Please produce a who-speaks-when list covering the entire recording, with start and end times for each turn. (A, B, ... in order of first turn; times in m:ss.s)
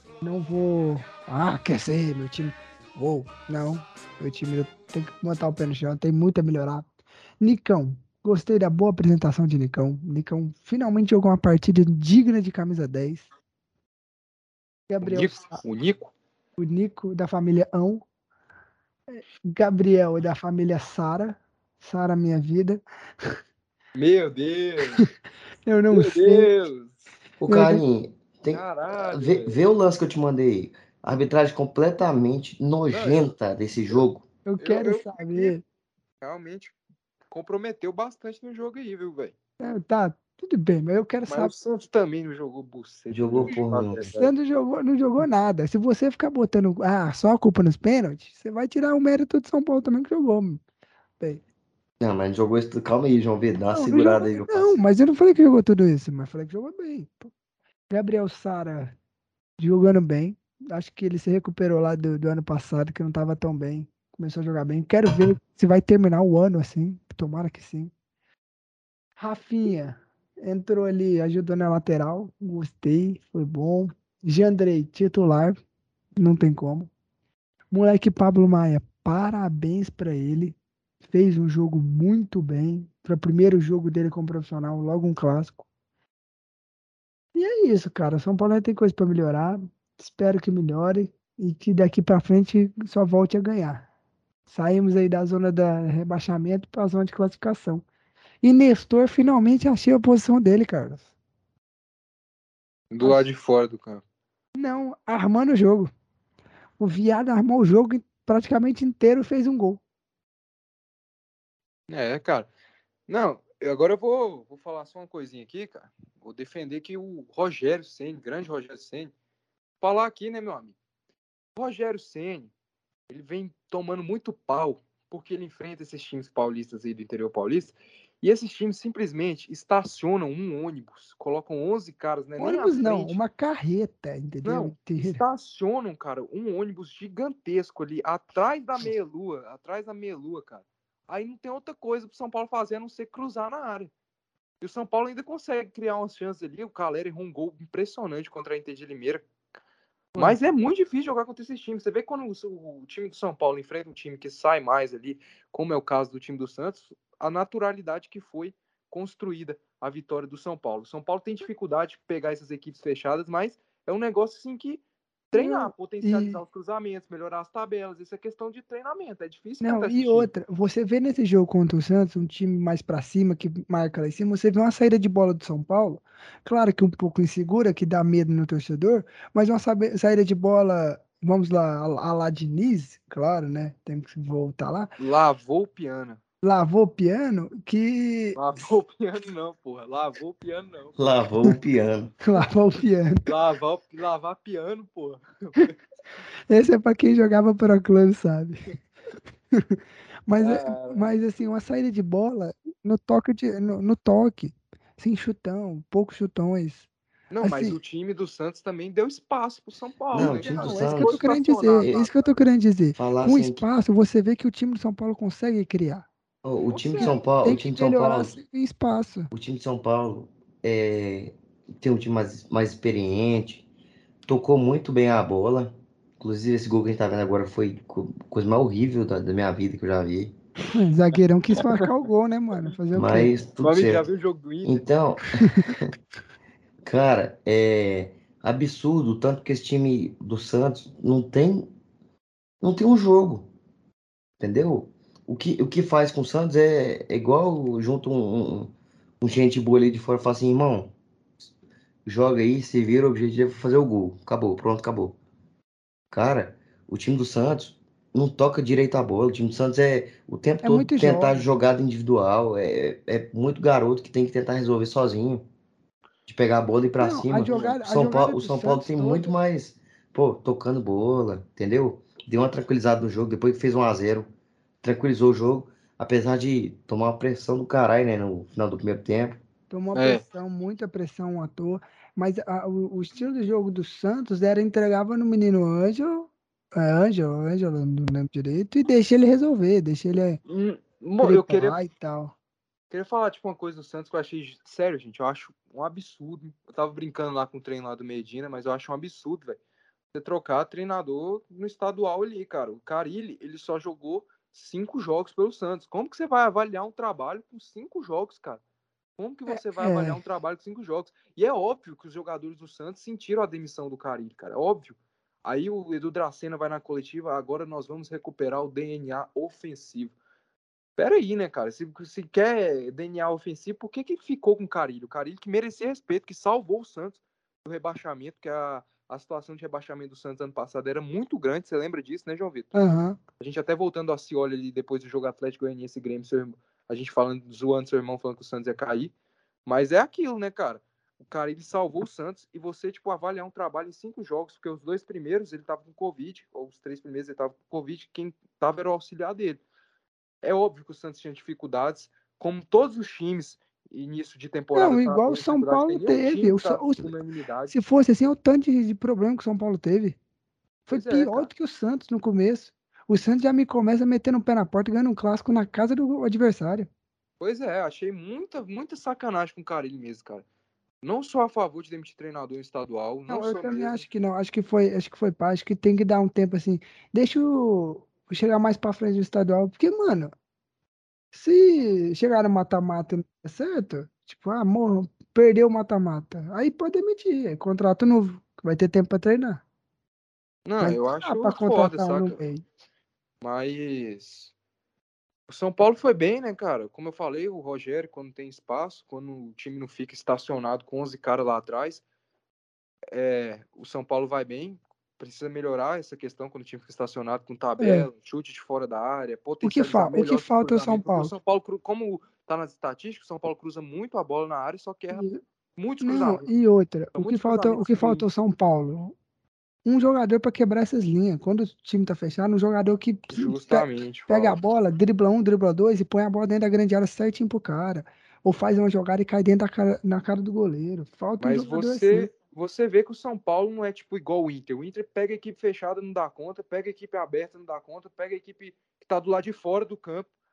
0:00.2-0:06.9 A
0:07.4-0:13.3 A
0:14.9-0:15.6 A
0:15.0-0:16.1 B
0:16.6-0:18.0 A
0:19.1-0:22.8 A
0:23.9-0:25.0 B
0:25.6-0:26.5 A
0:25.9-0:27.0 B
0:27.4-0:34.2 C
0:27.5-0:27.8 A
0:28.5-0:29.6 B
0:32.9-0:33.3 B
0:34.4-0:35.6 A
0:34.6-0:35.5 B
0:36.2-0:36.7 B
0:37.3-0:39.3 B
0:39.6-0:41.5 A
0:41.3-0:44.3 B
0:43.1-0:44.1 C
0:44.1-0:50.6 A
0:52.0-0:54.8 C
0:53.7-0:57.3 A
0:57.9-0:58.9 A
0:59.6-1:07.9 A
1:09.2-1:15.6 A
1:16.2-1:16.9 A
1:17.7-1:20.6 A
1:21.1-1:25.6 A
1:27.3-1:33.9 A
1:34.5-1:37.8 A
1:38.4-1:41.1 A
1:42.9-1:44.0 B
1:43.0-1:43.3 A
1:44.6-1:45.9 A
1:46.8-1:49.8 A
1:51.9-1:52.5 B
1:53.1-1:59.1 B
1:59.8-2:00.7 B
2:01.6-2:02.5 B
2:03.1-2:13.2 B
2:12.4-2:15.2 A
2:14.4-2:23.9 B
2:24.6-2:29.2 B
2:30.2-2:50.3 B
2:45.3-2:46.4 A
2:49.6-3:04.9 A
3:05.0-3:06.2 B
3:06.4-3:08.6 A
3:08.4-3:11.0 B
3:11.0-3:12.1 C
3:12.2-3:13.3 A
3:13.2-3:15.7 B
3:16.5-3:18.7 A
3:19.5-3:26.9 A
3:20.4-3:21.1 B
3:27.3-3:32.4 B
3:27.4-3:27.8 A
3:30.1-3:31.2 C
3:30.2-3:36.1 A
3:33.0-3:33.6 C
3:36.4-3:38.4 C
3:36.7-3:37.2 B
3:37.0-3:39.3 A
3:39.3-3:43.6 C
3:44.2-3:50.3 C
3:50.7-3:53.3 A
3:52.9-3:54.1 C
3:53.6-3:54.8 B
3:54.6-3:55.9 C
3:56.8-4:01.7 C
4:02.6-4:03.5 C
4:04.4-4:10.9 C
4:12.0-4:15.2 C
4:16.1-4:25.4 C
4:20.6-4:21.4 A
4:26.3-4:34.3 C
4:27.0-4:29.3 A
4:27.5-4:27.7 B
4:34.8-4:39.4 C
4:39.7-4:50.4 A
4:39.9-4:40.2 B
4:50.4-4:51.8 B
4:51.2-4:52.3 A
4:52.9-4:59.6 B
5:00.1-5:08.6 B
5:09.2-5:20.1 B
5:09.5-5:10.2 A
5:21.0-5:32.7 B
5:32.7-5:33.2 A
5:33.4-5:39.1 B
5:39.6-5:49.6 B
5:50.4-5:57.8 B
5:54.7-5:57.1 A
5:57.7-6:00.2 A
6:00.9-6:06.9 A
6:00.9-6:01.5 B
6:07.4-6:10.4 B
6:11.0-6:14.0 B
6:13.3-6:20.3 A
6:21.3-6:29.6 A
6:30.6-6:32.4 B
6:30.8-6:32.6 A
6:33.4-6:34.5 B
6:35.5-6:42.0 B
6:43.1-6:56.5 B
6:47.8-6:48.1 A
6:49.6-6:51.3 A
6:55.1-6:55.4 A
6:56.0-6:59.1 A
6:57.1-6:58.3 B
6:59.8-7:12.3 A
7:03.3-7:04.6 B
7:11.4-7:20.3 B